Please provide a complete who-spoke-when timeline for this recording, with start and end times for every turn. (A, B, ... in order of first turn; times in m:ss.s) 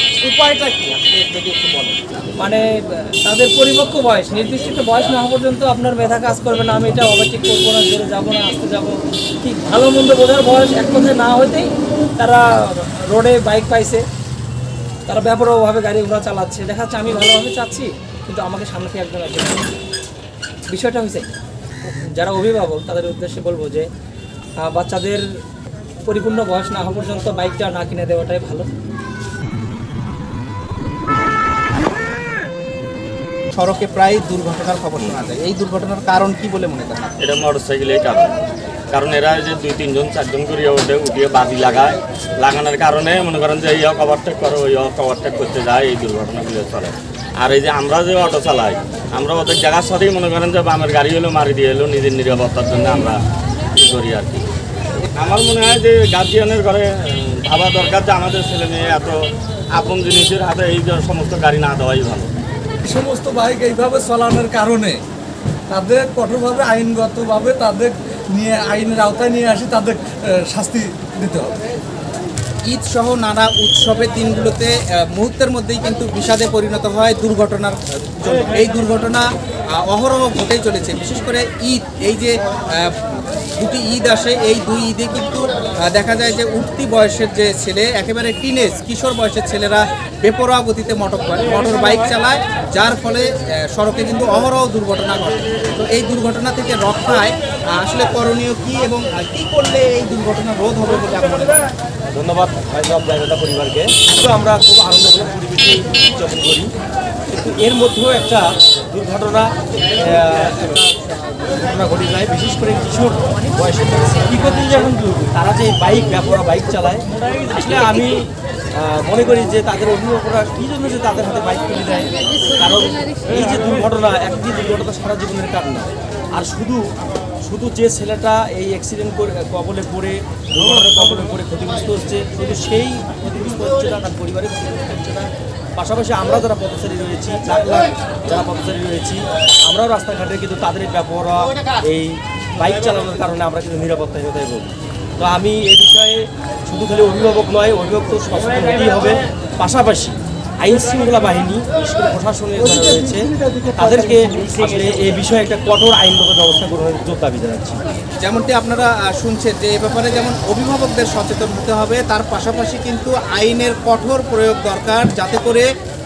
0:00.2-0:02.0 A
0:02.4-0:14.0 B
0:15.1-0:19.7 B
0:20.7-0:21.3 B
0:21.9-0:23.9 B
0:24.6-0:25.2 B
0:26.0-0:28.7 B
0:33.5-0:37.1 A
0:37.2-0:38.3 C
0:38.9-0:53.2 C
0:53.7-0:54.4 C
0:55.2-0:59.2 C
0:59.7-1:02.3 C
1:02.8-1:05.0 D
1:05.7-1:11.6 D
1:12.7-1:19.2 A
1:19.8-1:23.0 A
1:23.6-1:41.6 A
1:42.1-1:46.7 E
1:47.3-1:50.8 E
1:51.5-2:06.9 E
2:07.4-2:37.8 E
2:32.6-2:34.9 D
2:38.2-2:45.6 A